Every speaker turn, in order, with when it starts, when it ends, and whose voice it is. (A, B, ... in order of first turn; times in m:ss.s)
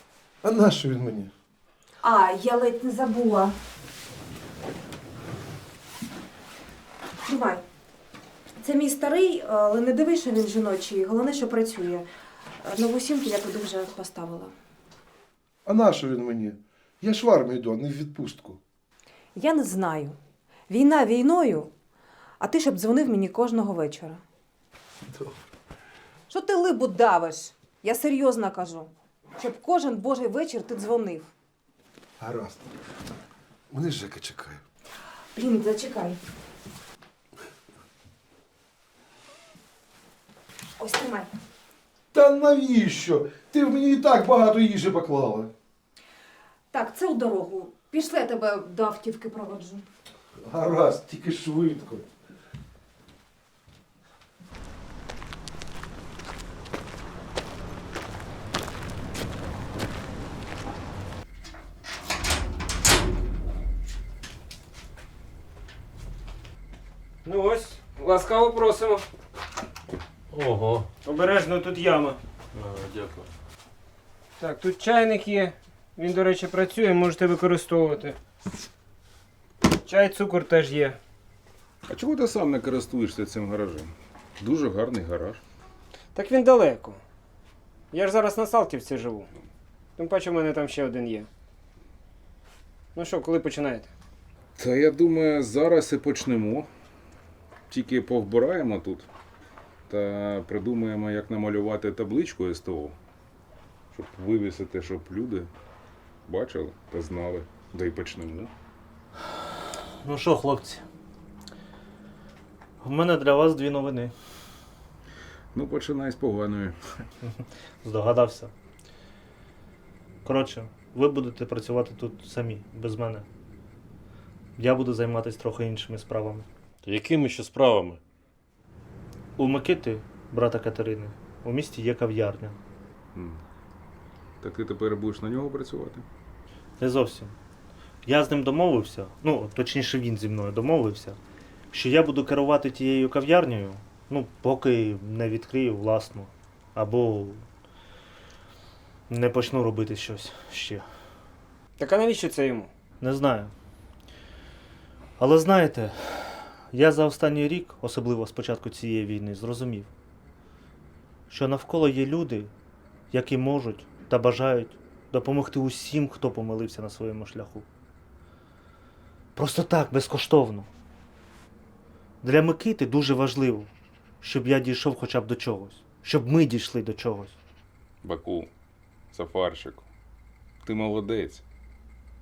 0:00.4-0:01.3 A
0:02.0-0:03.6 B
0:07.3-0:07.6 B
0:08.6-0:12.1 B
0:12.6-0:14.5 B
0:15.7-0:18.6 A
0:19.4-0:20.2 B
0:20.7-0:21.7 B
0:22.4-0:24.2 B
0:26.3-0:31.3 B
0:32.2-0:32.7 A
0:33.7-0:34.6 A
0:35.3-0:36.2 B
0:40.8-0:41.3 B
0:42.1-0:45.5 A
0:46.7-0:49.8 B
0:50.4-0:52.1 A
1:07.2-1:09.0 C
1:10.3-1:10.9 D
1:11.0-1:12.2 C
1:12.5-1:13.3 D
1:14.4-1:18.2 C
1:19.8-1:21.0 C
1:21.9-1:25.4 E
1:26.2-1:27.0 C
1:27.9-1:29.3 C
1:30.0-1:31.3 C
1:33.0-1:33.9 C
1:34.6-1:36.7 E
1:37.7-1:39.1 E
1:39.9-1:43.0 E
1:43.9-1:45.5 E
1:46.3-1:48.5 E
1:50.0-1:50.8 F
1:52.8-1:54.1 F
1:55.5-1:56.8 E
1:57.8-1:58.5 F
2:00.2-2:03.3 F
2:04.6-2:06.5 F
2:06.8-2:08.0 D
2:09.4-2:12.6 F
2:13.2-2:13.4 E
2:14.4-2:16.0 E
2:16.8-2:17.4 F
2:18.0-2:21.2 F
2:21.7-2:27.5 F
2:29.1-2:30.8 F
2:31.8-2:32.7 C
2:33.0-2:33.5 F
2:35.2-2:39.9 F
2:41.3-2:42.5 F
2:43.1-2:47.7 F
2:49.4-2:50.7 F
2:52.2-2:57.4 F
2:58.0-2:58.5 E
2:59.1-2:59.8 E
3:00.6-3:01.4 E